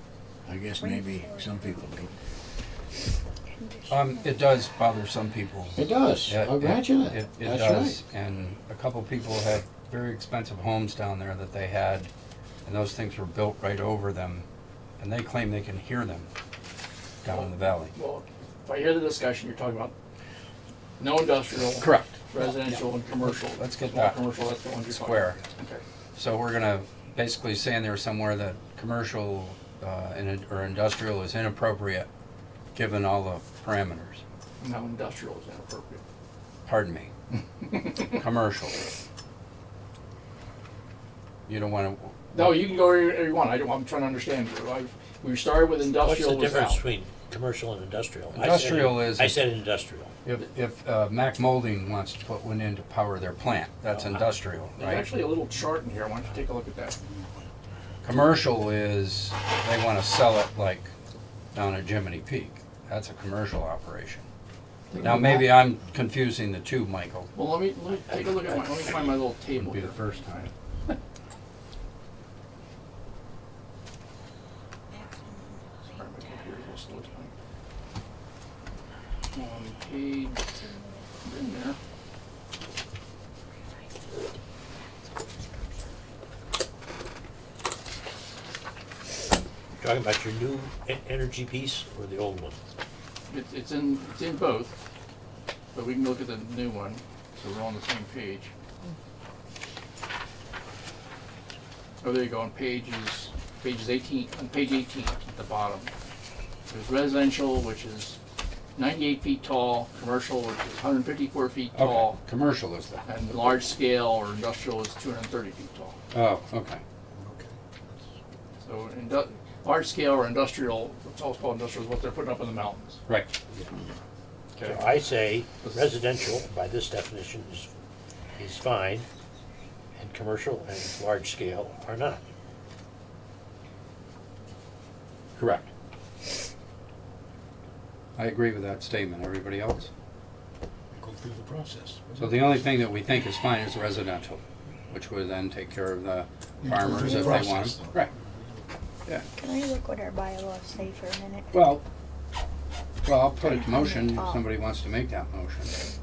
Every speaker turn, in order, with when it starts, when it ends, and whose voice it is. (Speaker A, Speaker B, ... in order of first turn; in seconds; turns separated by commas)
Speaker A: 0.5-2.1, Speaker B: 0.8-2.0, Speaker B: 3.3-4.6, Speaker C: 3.9-12.1, Speaker A: 5.8-8.0, Speaker C: 12.6-14.5, Speaker C: 15.0-16.3, Speaker C: 17.2-17.9, Speaker D: 17.3-19.9, Speaker D: 21.0-25.8, Speaker C: 21.8-24.3, Speaker C: 24.8-25.4, Speaker C: 26.1-32.1, Speaker C: 32.7-34.2, Speaker D: 34.6-36.0, Speaker C: 36.7-37.1, Speaker D: 37.6-38.0, Speaker C: 37.9-38.8, Speaker C: 41.5-42.7, Speaker D: 42.3-46.8, Speaker E: 46.0-50.1, Speaker C: 48.3-49.4, Speaker C: 50.2-55.1, Speaker D: 54.8-57.0, Speaker F: 57.0-57.4, Speaker C: 58.0-60.9, Speaker C: 61.5-64.3, Speaker D: 64.9-65.4, Speaker C: 65.0-67.3, Speaker D: 67.3-70.0, Speaker E: 68.1-69.0, Speaker C: 69.5-70.5, Speaker D: 75.8-77.3, Speaker D: 79.3-80.4, Speaker B: 80.5-81.1, Speaker D: 81.2-81.8, Speaker E: 89.8-92.6, Speaker D: 93.3-94.8, Speaker D: 95.7-98.5, Speaker D: 102.0-105.9, Speaker D: 106.7-108.2, Speaker D: 108.8-112.2, Speaker C: 111.7-113.1, Speaker D: 113.1-116.0, Speaker C: 116.1-116.8, Speaker F: 117.1-118.0, Speaker D: 118.6-123.0, Speaker C: 123.1-123.3, Speaker D: 124.6-125.0, Speaker E: 124.6-127.7, Speaker D: 125.6-125.9, Speaker E: 128.4-129.1, Speaker E: 130.0-132.2, Speaker C: 135.4-135.7, Speaker C: 138.2-139.9, Speaker F: 140.9-142.7, Speaker C: 142.2-148.1, Speaker F: 146.6-148.6, Speaker B: 149.4-151.5, Speaker C: 151.5-151.8, Speaker C: 153.0-155.7, Speaker B: 153.4-154.5